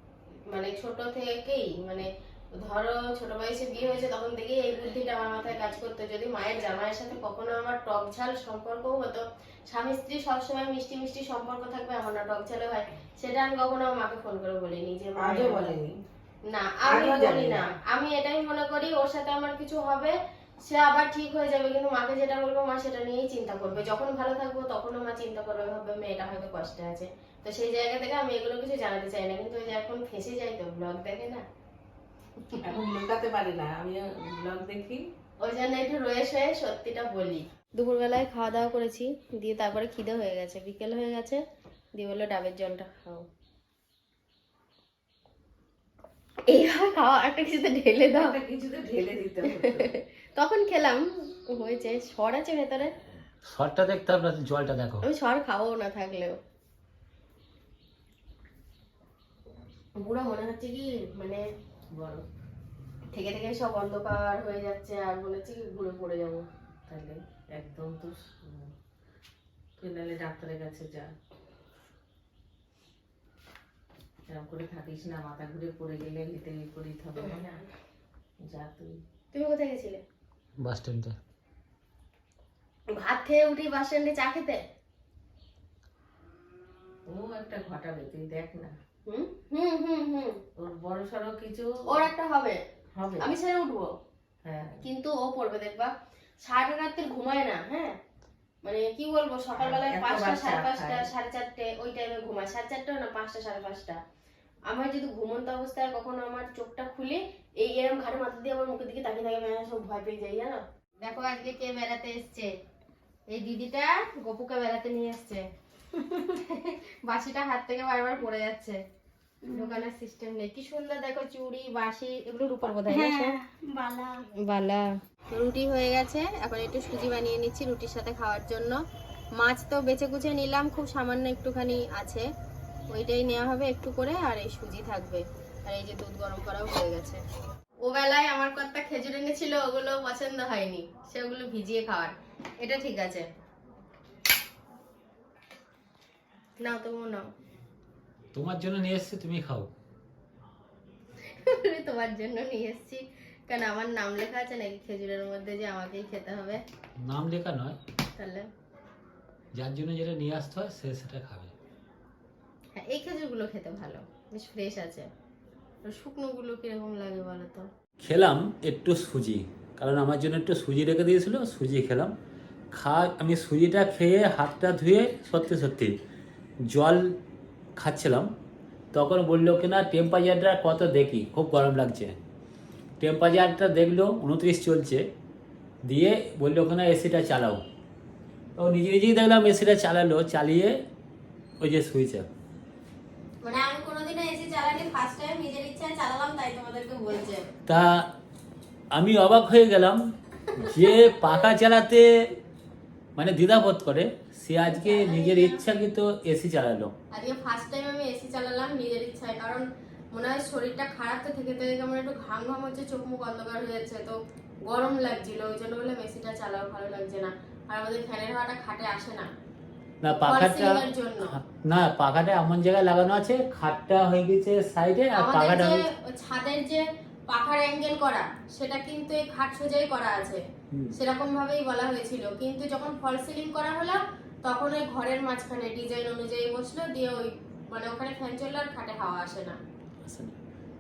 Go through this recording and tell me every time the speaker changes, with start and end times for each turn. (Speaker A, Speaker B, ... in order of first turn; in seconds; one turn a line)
Speaker A: 0.5-15.8
Speaker B: 15.2-15.9
Speaker A: 16.5-20.1
Speaker B: 16.9-17.6
Speaker A: 20.7-31.4
Speaker B: 32.6-35.1
Speaker A: 35.4-41.4
Speaker A: 42.0-43.2
Speaker A: 46.5-48.4
Speaker B: 48.1-49.9
Speaker A: 49.5-52.9
Speaker C: 53.5-55.0
Speaker A: 55.0-56.4
Speaker A: 60.0-61.4
Speaker B: 61.9-62.2
Speaker A: 63.1-66.5
Speaker B: 66.9-68.7
Speaker B: 69.8-71.1
Speaker B: 74.3-77.5
Speaker A: 77.2-77.6
Speaker B: 78.4-79.0
Speaker A: 79.3-80.0
Speaker C: 80.6-81.2
Speaker A: 82.9-84.6
Speaker B: 87.1-88.7
Speaker A: 89.1-90.4
Speaker B: 90.6-91.7
Speaker A: 91.9-92.6
Speaker B: 93.0-93.3
Speaker A: 93.2-93.9
Speaker B: 94.4-94.8
Speaker A: 94.8-95.9
Speaker A: 96.4-97.9
Speaker A: 98.6-104.0
Speaker B: 99.6-101.1
Speaker A: 104.7-112.5
Speaker A: 113.3-118.8
Speaker A: 119.5-123.4
Speaker A: 124.4-128.8
Speaker A: 129.4-132.3
Speaker A: 132.9-137.2
Speaker A: 137.8-143.3
Speaker A: 146.6-147.3
Speaker C: 148.3-149.7
Speaker A: 151.2-156.6
Speaker C: 157.0-157.8
Speaker A: 158.2-158.5
Speaker C: 159.6-161.5
Speaker A: 162.8-165.1
Speaker A: 165.8-167.7
Speaker C: 168.0-172.1
Speaker C: 172.8-175.9
Speaker C: 176.7-177.1
Speaker C: 177.8-178.3
Speaker C: 178.9-182.2
Speaker C: 183.0-185.0
Speaker C: 185.9-187.6
Speaker C: 188.6-190.7
Speaker C: 191.6-192.3
Speaker A: 193.4-197.5
Speaker C: 197.7-198.1
Speaker C: 198.9-200.0
Speaker C: 200.6-202.1
Speaker A: 200.7-201.2
Speaker C: 203.2-206.9
Speaker A: 204.6-205.6
Speaker A: 207.1-219.3
Speaker C: 220.0-220.8
Speaker A: 220.2-221.4
Speaker C: 221.3-225.8
Speaker A: 225.1-230.4
Speaker A: 230.9-239.6
Speaker C: 240.1-240.3